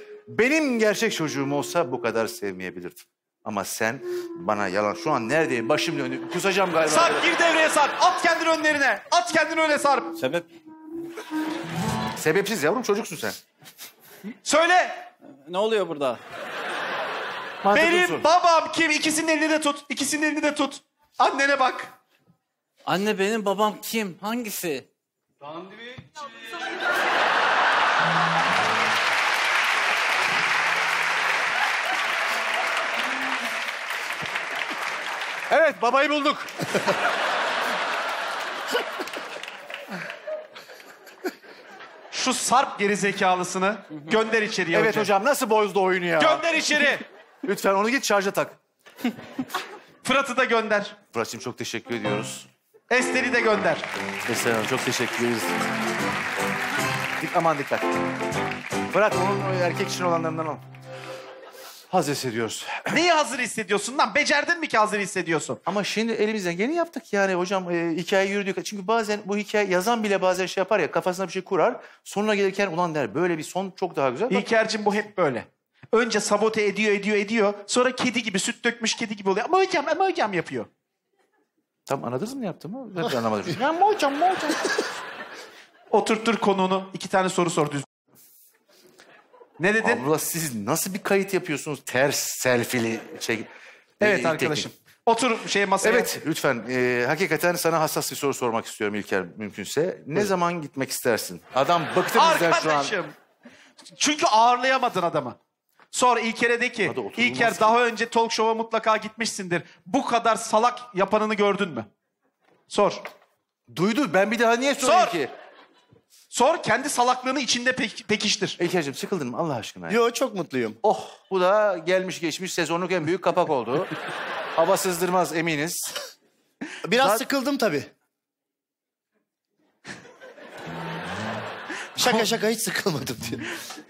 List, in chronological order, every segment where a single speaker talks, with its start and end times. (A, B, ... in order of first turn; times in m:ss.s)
0:00.3-0:07.2 A
0:06.9-0:10.2 B
0:10.2-0:10.5 C
0:12.2-0:13.4 A
0:14.4-0:15.1 B
0:15.4-0:16.2 C
0:17.6-0:18.2 A
0:17.7-0:21.9 B
0:22.8-0:24.9 C
0:35.5-0:36.8 A
0:42.1-0:45.1 B
0:44.7-0:46.8 A
0:46.2-0:47.0 B
0:47.4-0:48.6 A
0:50.0-0:51.0 B
0:51.1-0:52.5 A
0:52.9-0:53.9 B
0:54.3-0:55.6 A
0:57.2-0:58.0 A
0:58.9-1:00.6 A
1:01.9-1:03.0 A
1:02.9-1:05.6 B
1:05.7-1:14.5 A
1:14.3-1:20.7 B
1:21.9-1:24.8 A
1:25.9-1:27.9 B
1:29.6-1:30.0 B
1:29.8-1:34.7 A
1:34.0-1:36.1 B
1:35.8-1:42.9 A
1:42.2-1:43.2 B
1:44.0-1:45.4 B
1:45.9-1:51.9 B
1:46.8-1:47.8 A
1:52.7-1:53.0 B
1:53.7-1:55.3 A
1:54.8-1:55.2 B
1:56.3-1:58.6 B
1:58.6-2:00.0 A
1:59.9-2:00.8 D
2:00.8-2:03.9 A
2:04.6-2:06.0 A
2:06.8-2:07.9 D
2:07.0-2:07.2 A
2:12.0-2:13.5 D